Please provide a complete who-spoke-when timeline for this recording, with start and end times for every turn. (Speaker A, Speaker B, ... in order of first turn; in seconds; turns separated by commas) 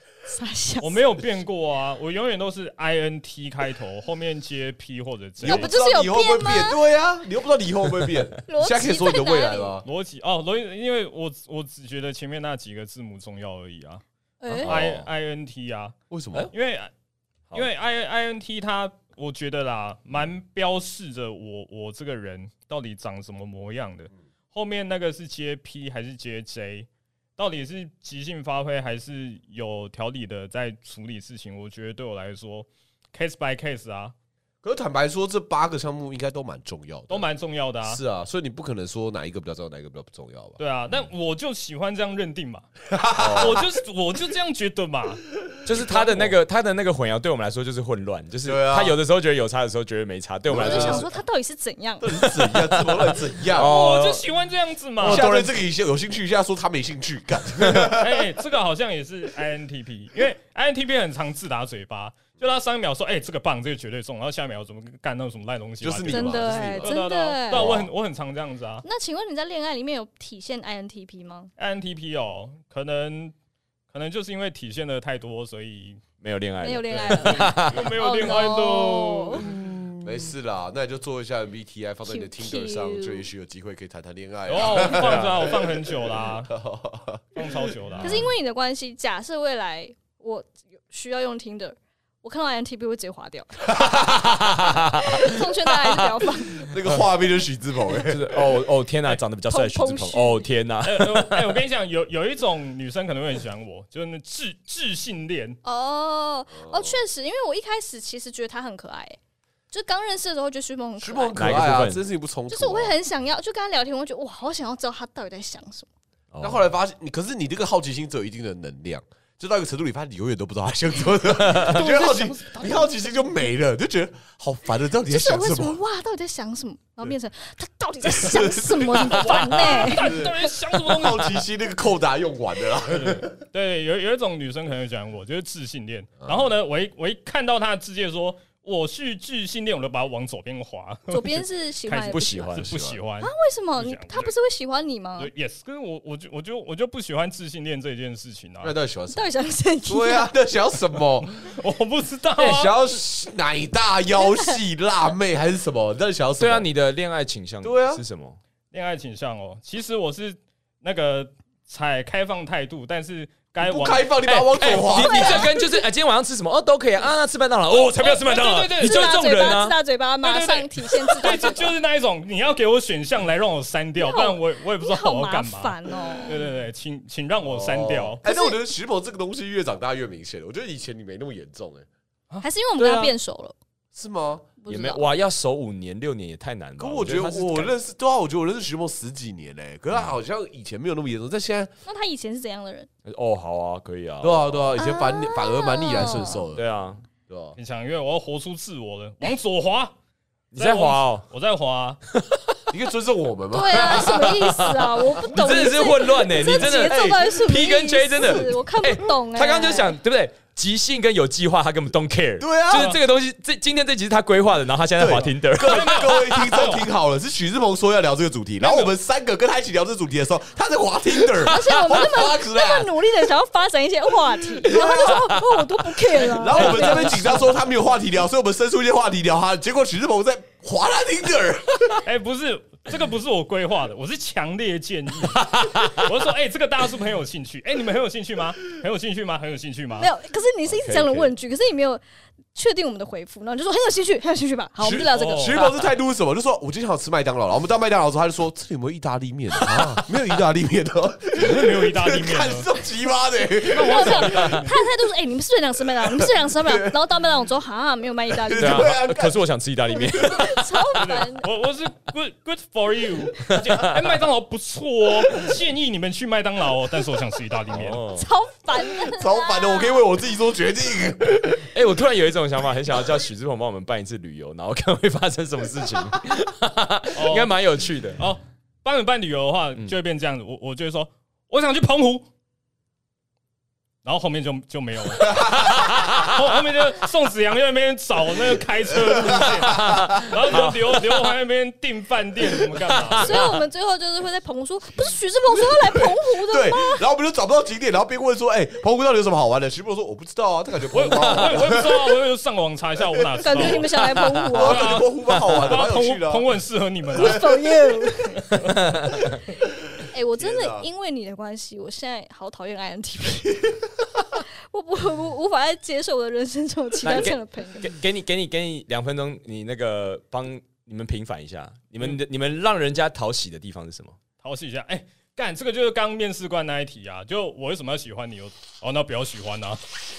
Speaker A: 0.2-1.0, Speaker B: 0.8-5.7, Speaker A: 5.4-6.8, Speaker C: 5.4-9.8, Speaker A: 8.5-9.8, Speaker B: 9.8-14.0, Speaker A: 14.4-14.7, Speaker D: 14.5-14.9, Speaker B: 14.6-15.9, Speaker C: 14.6-15.0, Speaker C: 16.1-16.5, Speaker B: 16.5-16.9, Speaker B: 17.5-34.1, Speaker C: 34.6-37.3, Speaker B: 37.1-38.0, Speaker C: 37.8-40.6, Speaker B: 40.6-42.7, Speaker C: 42.9-43.6, Speaker D: 43.2-43.6, Speaker B: 43.4-45.2, Speaker C: 45.6-46.4, Speaker D: 45.6-51.1, Speaker C: 48.4-49.0, Speaker C: 50.5-51.1, Speaker A: 50.5-52.5, Speaker C: 52.0-53.7, Speaker D: 53.5-54.2, Speaker B: 53.6-55.3, Speaker D: 55.0-55.5, Speaker C: 55.0-58.2, Speaker B: 57.9-68.8, Speaker C: 65.8-66.9, Speaker A: 66.0-67.7, Speaker A: 68.8-71.5, Speaker B: 71.6-73.3, Speaker B: 73.9-76.0, Speaker D: 76.2-77.9, Speaker A: 76.6-79.5, Speaker B: 76.9-79.5, Speaker C: 79.5-85.8, Speaker A: 82.0-83.2, Speaker B: 84.5-86.5, Speaker D: 84.8-85.5, Speaker C: 86.5-87.5, Speaker B: 87.3-88.2, Speaker A: 88.0-93.8, Speaker C: 93.7-94.6, Speaker D: 94.2-95.2, Speaker A: 94.7-96.7, Speaker C: 96.6-98.5, Speaker D: 98.0-101.6, Speaker A: 99.5-100.5, Speaker B: 100.8-105.6, Speaker A: 105.6-109.2, Speaker C: 106.5-107.0, Speaker A: 109.7-111.6, Speaker C: 111.0-112.9, Speaker D: 111.3-112.0, Speaker A: 112.5-115.9, Speaker D: 116.3-116.6, Speaker C: 116.4-125.8, Speaker D: 121.5-121.8, Speaker B: 121.7-122.9, Speaker A: 125.1-130.1, Speaker C: 128.0-133.3, Speaker B: 129.1-131.4, Speaker B: 132.9-144.3, Speaker A: 141.1-142.5, Speaker D: 142.0-143.0, Speaker A: 143.2-145.3, Speaker B: 145.2-148.7, Speaker C: 148.6-149.3, Speaker A: 149.1-150.3, Speaker C: 149.8-151.6, Speaker B: 151.4-152.7, Speaker C: 152.4-156.7, Speaker A: 154.2-154.5, Speaker D: 156.4-158.4, Speaker C: 157.6-158.0, Speaker B: 158.7-164.1, Speaker C: 163.6-165.5, Speaker D: 164.2-169.8, Speaker A: 164.8-165.8, Speaker B: 168.0-169.6, Speaker A: 168.8-171.7, Speaker B: 170.2-175.8, Speaker A: 174.0-176.3, Speaker B: 176.3-178.2, Speaker D: 177.4-178.2, Speaker C: 178.2-181.9, Speaker A: 178.2-178.6, Speaker A: 182.4-183.6, Speaker D: 182.8-183.1, Speaker C: 183.9-184.5, Speaker A: 184.6-185.1, Speaker D: 184.7-187.7, Speaker C: 186.8-191.7, Speaker A: 191.8-192.9, Speaker D: 193.0-194.8, Speaker C: 194.2-196.6, Speaker A: 194.8-196.4, Speaker D: 195.9-197.0, Speaker C: 197.3-197.6, Speaker B: 197.6-199.9, Speaker D: 200.5-201.2, Speaker B: 200.5-202.0, Speaker D: 202.1-202.6, Speaker C: 202.7-204.3, Speaker A: 203.5-209.9, Speaker D: 203.8-216.1, Speaker C: 206.5-207.4, Speaker C: 212.4-212.9, Speaker B: 212.7-213.0, Speaker C: 215.0-223.3, Speaker B: 215.1-216.9, Speaker B: 218.6-218.9, Speaker A: 221.4-227.5, Speaker D: 221.6-222.0, Speaker C: 224.3-225.3, Speaker D: 224.9-225.6, Speaker C: 226.1-232.0, Speaker B: 226.2-227.4, Speaker B: 232.0-240.1, Speaker D: 235.4-236.1, Speaker A: 240.0-242.0, Speaker D: 240.7-241.3, Speaker A: 242.5-245.9, Speaker C: 244.8-254.6, Speaker B: 245.1-245.6, Speaker B: 251.4-252.7, Speaker A: 253.6-258.9, Speaker B: 253.7-254.7, Speaker C: 256.0-257.0, Speaker C: 258.3-259.4, Speaker D: 258.6-260.9, Speaker A: 259.9-261.5, Speaker C: 260.1-260.4, Speaker B: 260.9-268.0, Speaker D: 263.5-264.0, Speaker D: 267.7-268.3, Speaker A: 268.1-270.0, Speaker C: 269.0-271.7, Speaker D: 271.7-278.2, Speaker B: 277.1-277.5, Speaker B: 278.1-282.3, Speaker B: 284.0-293.4, Speaker C: 285.2-285.7, Speaker D: 285.7-286.3, Speaker C: 289.0-290.3, Speaker D: 289.8-290.7, Speaker A: 293.1-297.0, Speaker C: 295.5-301.9, Speaker B: 300.9-303.9, Speaker A: 303.4-305.0, Speaker C: 303.5-303.8, Speaker D: 304.0-304.5, Speaker C: 304.5-306.5, Speaker B: 304.5-307.4, Speaker D: 305.3-305.6, Speaker C: 307.1-308.0, Speaker A: 307.1-308.8, Speaker D: 308.7-309.2, Speaker A: 310.1-313.8, Speaker C: 310.3-310.9, Speaker A: 314.3-317.9, Speaker D: 317.0-324.2, Speaker B: 324.4-329.8